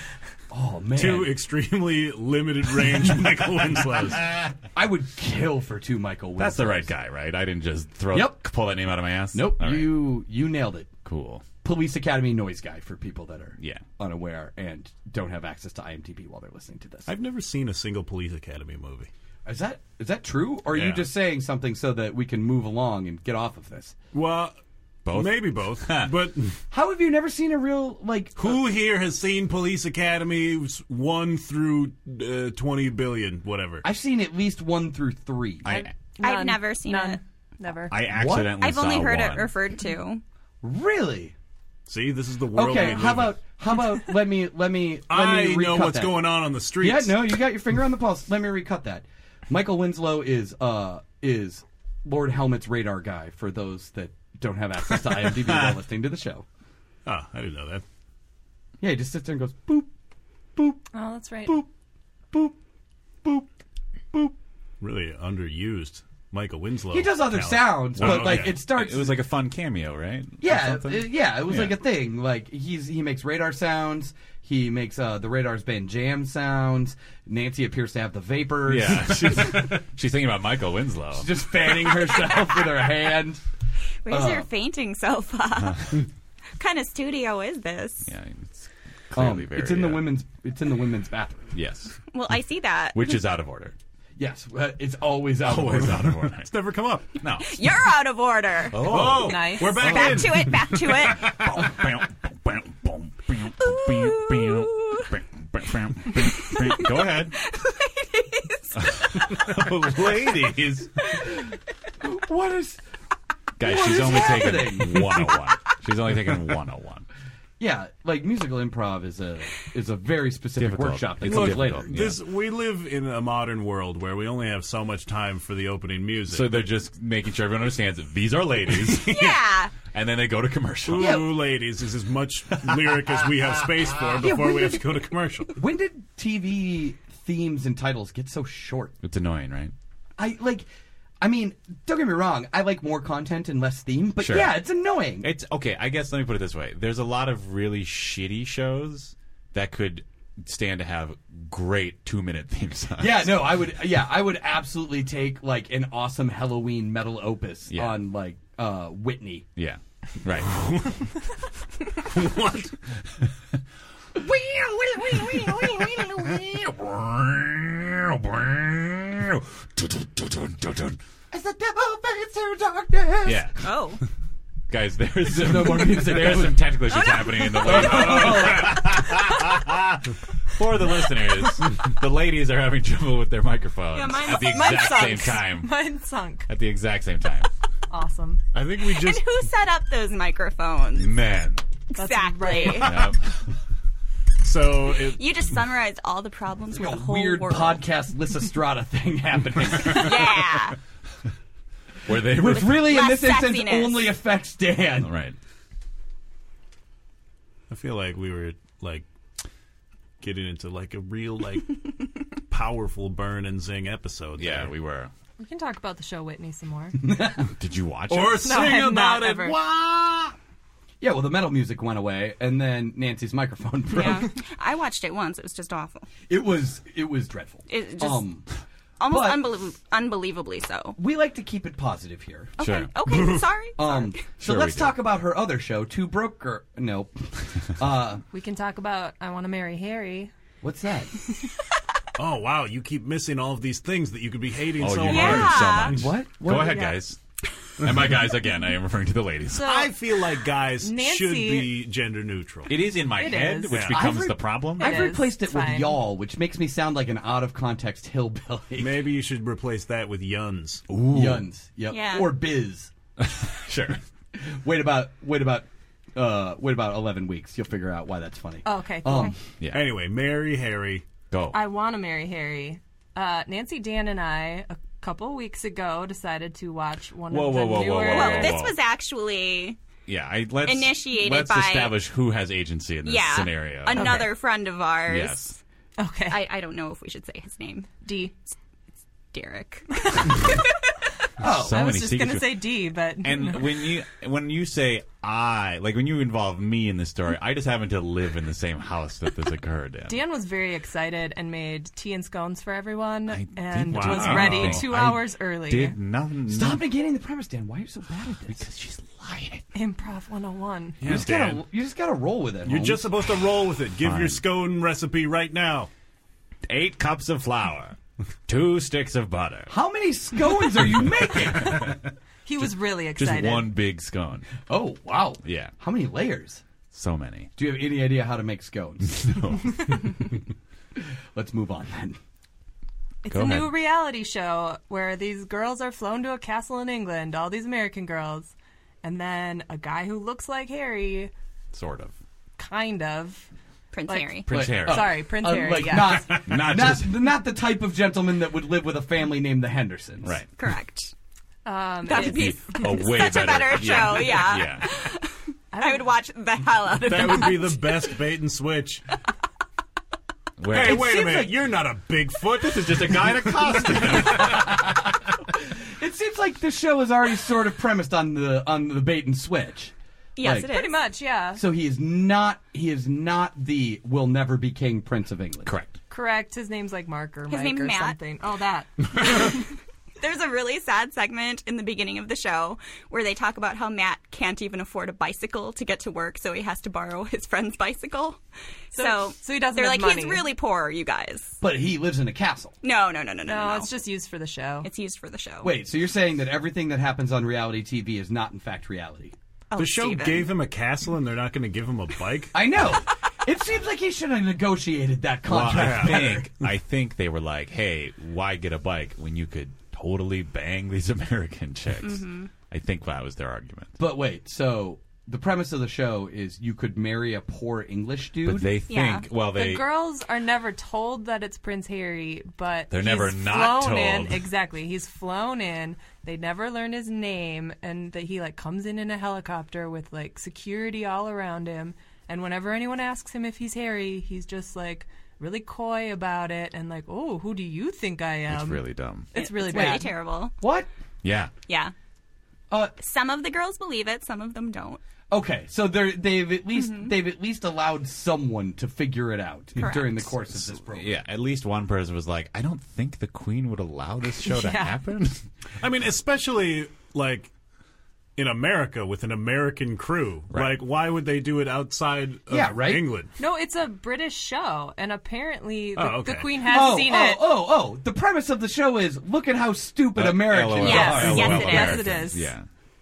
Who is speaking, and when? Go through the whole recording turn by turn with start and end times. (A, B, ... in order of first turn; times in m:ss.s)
0:00.5-0:01.4 A
0:00.9-0:04.3 B
0:04.7-0:06.9 A
0:06.4-0:10.1 C
0:08.1-0:08.4 A
0:09.3-0:10.9 A
0:11.0-0:11.5 C
0:11.6-0:17.1 A
0:13.6-0:13.8 C
0:17.0-0:19.1 B
0:19.4-0:24.0 A
0:20.7-0:21.0 B
0:24.1-0:24.6 B
0:25.0-0:26.1 C
0:25.1-0:26.6 B
0:26.7-0:28.6 A
0:28.4-0:33.8 B
0:33.8-0:35.8 A
0:35.6-0:35.9 C
0:36.2-0:38.0 D
0:36.2-0:37.2 E
0:37.9-0:39.5 C
0:38.1-0:38.6 A
0:38.4-0:40.2 E
0:40.6-0:41.3 A
0:41.9-0:43.4 B
0:42.5-0:56.4 A
0:45.1-0:47.2 B
0:55.1-0:55.7 C
0:57.0-0:57.8 B
0:58.8-0:59.9 A
1:00.6-1:00.8 A
1:00.9-1:01.6 D
1:04.8-1:08.6 B
1:06.9-1:09.2 A
1:08.0-1:11.8 C
1:10.4-1:19.8 A
1:18.6-1:21.4 C
1:21.1-1:23.4 A
1:24.0-1:26.0 E
1:24.1-1:24.5 A
1:25.6-1:26.0 C
1:26.6-1:28.1 E
1:28.0-1:30.2 C
1:29.1-1:31.5 A
1:31.5-1:32.0 C
1:32.1-1:33.2 E
1:32.9-1:33.7 C
1:34.2-1:36.0 A
1:35.4-1:36.5 C
1:35.5-1:37.1 B
1:37.2-1:37.7 C
1:37.4-1:39.0 E
1:38.7-1:40.3 C
1:38.8-1:40.9 B
1:39.1-1:39.8 D
1:39.6-1:41.4 E
1:40.9-1:47.4 C
1:43.6-1:45.1 E
1:46.1-1:49.4 E
1:48.8-1:50.9 C
1:52.0-1:52.8 A
1:53.6-1:57.1 C
1:53.6-1:55.3 A
1:57.6-2:01.9 A
2:00.6-2:02.2 C
2:01.2-2:06.6 B
2:06.3-2:11.2 C
2:09.0-2:09.7 E
2:10.9-2:15.5 B
2:11.0-2:11.4 A
2:14.2-2:14.9 A
2:15.5-2:18.9 A
2:19.0-2:19.7 C
2:20.2-2:20.7 A
2:21.2-2:25.3 A
2:24.2-2:24.6 C
2:25.2-2:33.7 C
2:33.0-2:39.4 A
2:37.7-2:38.0 C
2:39.6-2:40.5 C
2:40.5-2:41.0 B
2:42.0-2:42.7 B
2:44.2-2:51.0 C
2:51.3-2:53.5 A
2:53.2-2:53.6 C
2:53.6-2:54.0 E
2:54.7-3:05.7 C
2:55.2-2:56.7 A
2:57.3-2:57.6 E
2:57.5-2:58.9 A
2:57.9-2:58.3 B
3:03.9-3:05.0 E
3:04.1-3:06.5 D
3:06.5-3:07.5 C
3:07.9-3:08.4 D
3:08.5-3:09.3 B
3:08.8-3:11.2 E
3:10.9-3:11.6 C
3:11.9-3:13.0 E
3:12.0-3:13.1 D
3:12.7-3:13.2 C
3:14.4-3:15.2 B
3:15.1-3:17.8 E
3:16.7-3:20.4 A
3:19.8-3:20.8 E
3:22.0-3:23.0 C
3:22.1-3:25.1 A
3:22.5-3:24.1 E
3:25.0-3:25.4 C
3:27.7-3:29.1 B
3:30.2-3:31.8 B
3:32.5-3:34.7 B
3:34.4-3:35.1 C
3:35.4-3:37.0 D
3:37.0-3:37.5 A
3:37.5-3:38.6 C
3:38.1-3:40.3 B
3:38.4-3:39.6 D
3:41.0-3:44.3 A
3:43.9-3:46.1 E
3:46.3-3:48.5 A
3:47.7-3:48.3 E
3:49.0-3:51.0 E
3:49.1-3:49.4 A
3:51.0-3:52.5 A
3:52.6-3:52.9 C
3:52.6-3:54.2 E
3:53.1-3:53.4 B
3:53.8-3:58.2 A
3:54.4-3:55.0 C
3:58.3-4:00.3 D
4:00.6-4:01.2 A
4:02.2-4:06.0 B
4:04.8-4:07.2 C
4:05.0-4:05.9 E
4:05.8-4:07.0 A
4:07.8-4:09.8 C
4:09.6-4:09.9 D
4:09.6-4:12.7 B
4:10.7-4:11.8 D
4:12.7-4:15.1 C
4:13.1-4:13.9 D
4:13.7-4:14.0 B
4:13.9-4:19.0 A
4:14.7-4:16.0 D
4:18.8-4:20.8 B
4:20.9-4:21.4 C
4:21.0-4:22.9 A
4:21.9-4:22.3 E
4:23.2-4:24.0 C
4:24.3-4:29.4 A
4:28.6-4:29.3 D
4:29.6-4:29.8 C
4:29.7-4:31.0 B
4:31.3-4:31.6 C
4:31.5-4:38.6 D
4:37.3-4:38.8 C
4:38.1-4:39.8 E
4:40.1-4:44.3 C
4:40.6-4:42.0 E
4:43.0-4:45.5 E
4:43.9-4:44.3 D
4:45.0-4:45.6 C
4:46.0-4:46.5 D
4:46.3-4:48.0 E
4:48.0-4:48.4 D
4:49.3-4:50.9 E
4:50.0-4:50.5 D
4:51.4-4:51.8 A
4:51.4-5:00.2 C
4:51.7-4:53.9 D
5:00.1-5:06.0 D
5:03.3-5:06.8 C
5:03.9-5:04.9 B
5:06.5-5:08.6 A
5:08.5-5:09.6 C
5:09.7-5:11.1 D
5:11.0-5:11.6 B
5:11.0-5:13.0 A
5:12.6-5:15.9 B
5:14.0-5:14.4 C
5:16.6-5:19.7 C
5:19.7-5:22.0 A
5:21.6-5:21.9 C
5:22.4-5:23.7 D
5:23.1-5:24.5 C
5:24.6-5:26.6 A
5:25.4-5:25.7 C
5:26.9-5:27.5 C
5:27.6-5:29.6 A
5:29.0-5:30.0 C
5:31.0-5:32.2 A
5:33.2-5:41.3 D
5:33.3-5:33.7 C
5:41.7-5:42.1 C
5:42.6-5:43.5 D
5:43.9-5:44.5 E
5:44.1-5:46.4 D
5:44.5-5:45.3 C
5:44.5-5:50.4 A
5:46.1-5:47.2 C
5:50.2-5:50.5 C
5:50.6-5:51.1 E
5:51.6-5:53.1 D
5:52.0-5:58.1 E
5:52.1-5:54.9 C
5:55.7-5:56.1 D
5:57.0-5:59.0 B
6:00.6-6:01.2 C
6:00.7-6:03.6 B
6:00.8-6:01.5 A
6:02.5-6:04.9 C
6:04.0-6:05.1 A
6:05.9-6:10.7 A
6:10.4-6:11.0 E
6:10.6-6:11.6 D
6:11.5-6:15.7 A
6:15.6-6:16.0 C
6:16.1-6:19.6 D
6:17.5-6:18.2 E
6:19.2-6:19.6 E
6:20.2-6:28.4 E
6:28.9-6:30.5 D
6:28.9-6:31.6 E
6:31.6-6:32.7 A
6:32.8-6:33.9 E
6:33.4-6:34.9 D
6:34.8-6:35.8 E
6:35.6-6:39.3 A
6:39.7-6:40.5 E
6:39.8-6:42.6 B
6:42.5-6:46.5 A
6:45.4-6:54.0 C
6:45.6-6:46.3 B
6:52.0-6:52.5 E
6:54.0-6:58.8 A
6:58.4-6:59.8 C
6:58.9-6:59.3 E
6:59.5-7:20.1 D
7:02.9-7:04.5 C
7:18.5-7:19.3 C
7:19.3-7:20.5 E
7:19.7-7:20.9 A
7:21.2-7:21.5 C
7:21.7-7:21.9 E
7:22.7-7:22.9 A
7:23.0-7:25.0 E
7:25.3-7:31.2 A
7:26.7-7:27.1 E
7:29.8-7:30.3 E
7:30.5-7:35.4 C
7:34.4-7:35.0 D
7:35.8-7:37.5 B
7:38.4-7:43.3 B
7:40.5-7:40.8 C
7:42.5-7:43.1 A
7:43.4-7:47.5 D
7:45.9-7:46.7 B
7:46.6-7:51.9 A
7:50.1-7:52.7 C
7:50.8-7:52.1 E
7:50.8-7:52.5 D